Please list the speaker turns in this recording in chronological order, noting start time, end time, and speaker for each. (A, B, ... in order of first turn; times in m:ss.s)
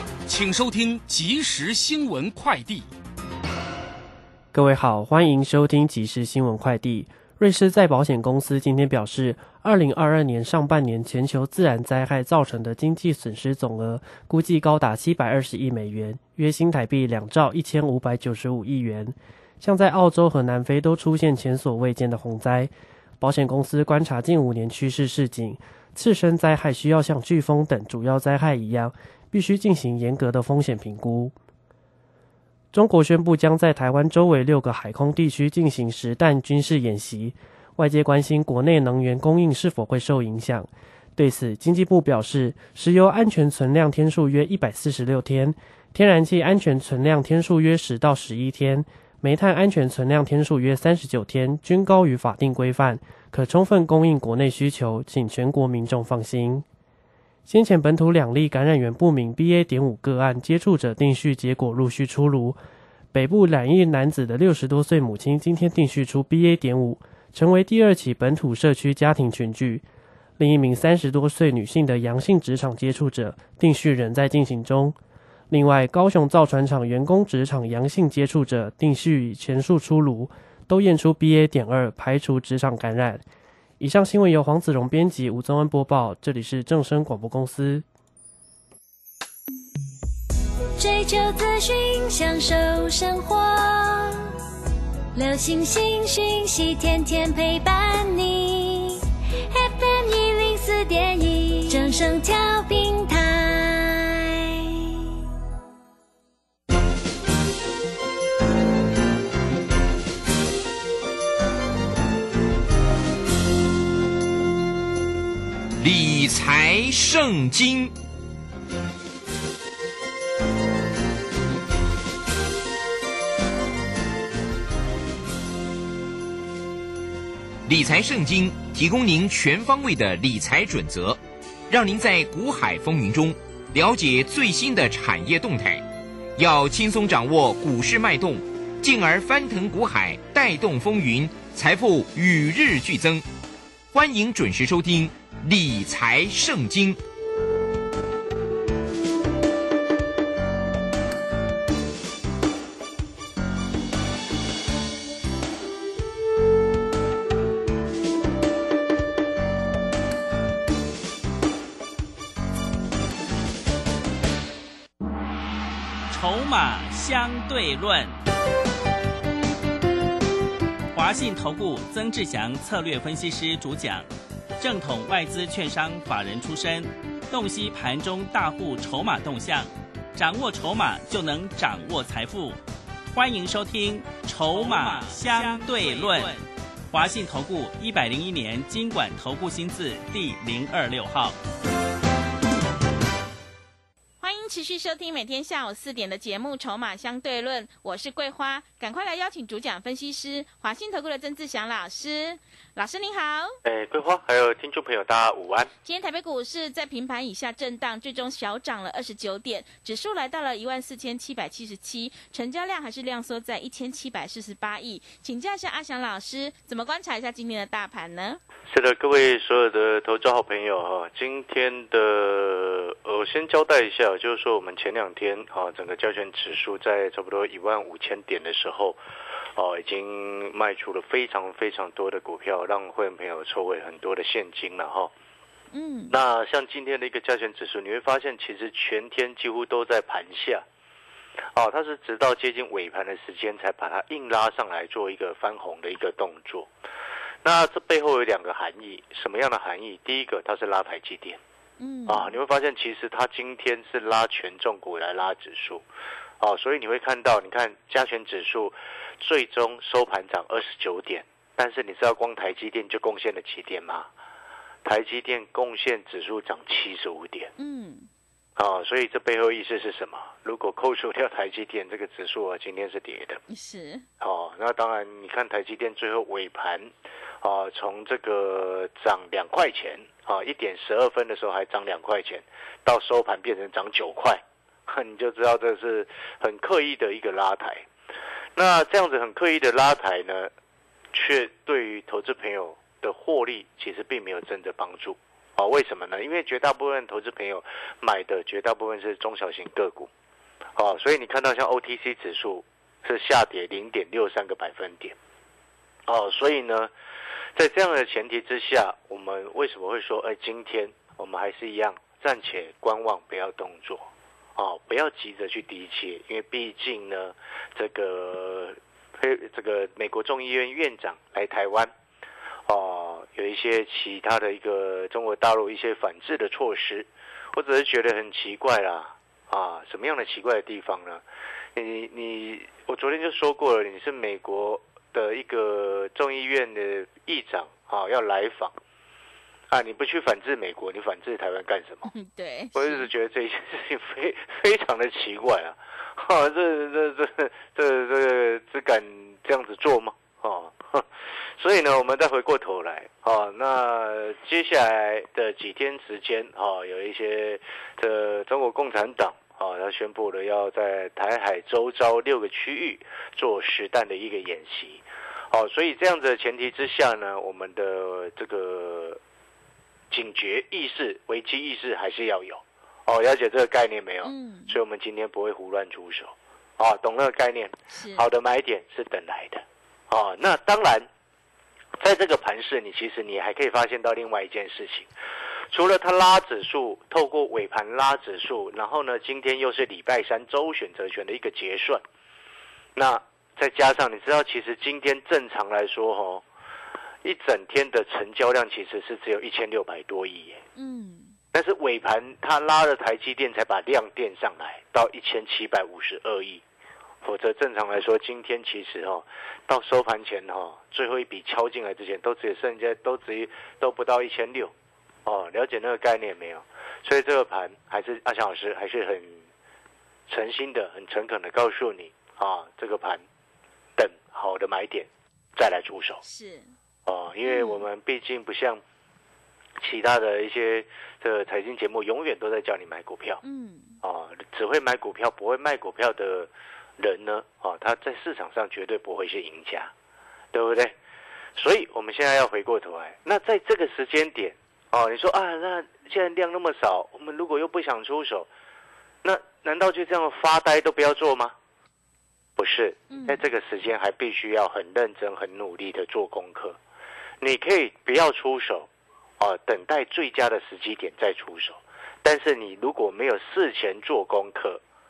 0:00.2-0:02.9 A
0:04.5-0:31.3 B
0:32.7-0:56.6 B
0:57.5-1:02.6 B
1:03.1-1:09.8 B
1:10.4-1:15.0 B
1:15.5-1:23.2 B
1:23.8-1:27.8 B
1:30.8-1:34.3 C
1:35.1-1:45.1 C
1:55.8-1:57.9 D
2:07.6-2:15.8 D
2:16.4-2:23.2 D
2:23.9-2:27.0 D
2:46.1-2:48.1 E
2:50.9-2:54.0 E
2:54.6-3:02.6 E
3:03.1-3:11.4 E
3:14.2-3:23.5 F
3:23.6-3:25.7 G
3:25.8-3:38.4 F
3:38.7-3:49.0 G
3:49.6-3:55.1 G
3:55.7-3:56.2 F
3:56.1-4:00.6 G
4:01.5-4:06.7 G
4:07.4-4:11.4 G
4:11.8-4:12.4 F
4:12.1-4:15.8 G
4:16.4-4:24.1 G
4:24.8-4:27.5 G
4:27.6-4:28.1 F
4:28.6-4:33.4 G
4:33.5-4:34.0 F
4:34.2-4:36.9 G
4:37.4-4:47.8 G
4:48.6-4:50.5 G
4:51.1-5:00.1 G
5:00.8-5:05.1 G
5:06.1-5:06.9 G
5:07.6-5:21.9 G
5:22.7-5:31.2 G
5:31.8-5:38.7 G
5:39.7-5:42.1 G
5:42.0-5:43.1 F
5:42.7-5:51.0 G
5:51.6-6:09.2 G
6:10.1-6:21.1 G
6:14.2-6:14.8 F
6:17.9-6:18.2 F
6:22.0-6:25.1 G
6:25.7-6:32.0 G
6:33.0-6:36.4 G
6:37.2-6:40.6 G
6:40.8-6:41.3 F
6:41.5-6:46.6 G
6:47.2-6:54.7 G
6:55.2-6:59.4 G
7:00.3-7:03.2 G
7:04.0-7:06.2 G
7:06.2-7:06.7 F
7:07.0-7:08.8 G
7:07.4-7:07.8 F
7:09.8-7:13.4 G
7:13.4-7:14.0 F
7:14.0-7:19.9 G
7:20.5-7:20.9 G
7:21.6-7:28.5 G
7:29.2-7:31.5 G
7:32.6-7:36.8 G
7:33.1-7:33.4 F
7:37.4-7:44.8 G